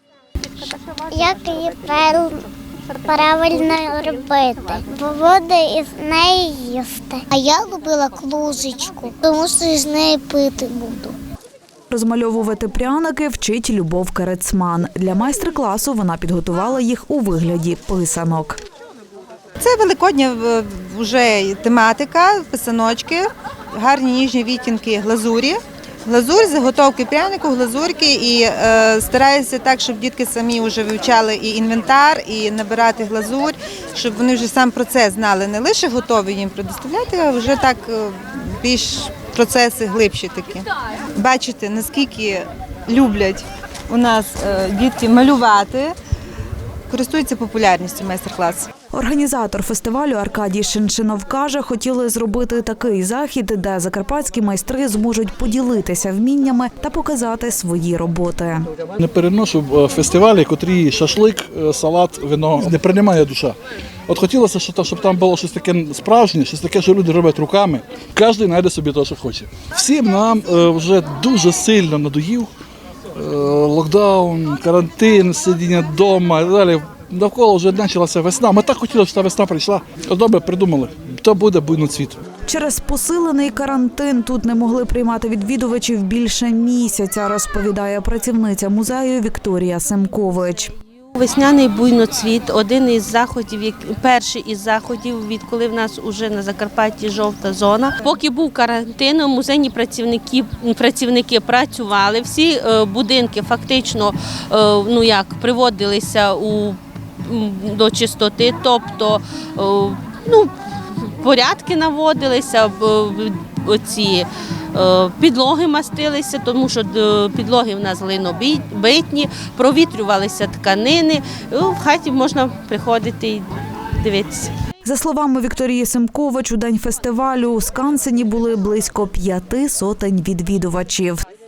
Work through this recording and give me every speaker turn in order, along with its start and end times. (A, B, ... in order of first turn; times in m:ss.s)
0:00.6-0:11.2 A
0:11.9-0:18.6 B
0:19.6-0:45.9 C
0:46.9-0:48.7 C
0:48.9-0:58.7 B
0:59.0-1:03.6 D
1:04.1-1:12.5 D
1:13.2-1:22.2 D
1:22.5-1:30.7 B
1:31.2-1:50.5 E
1:51.2-2:03.5 E
2:04.0-2:04.5 E
2:04.8-2:11.2 B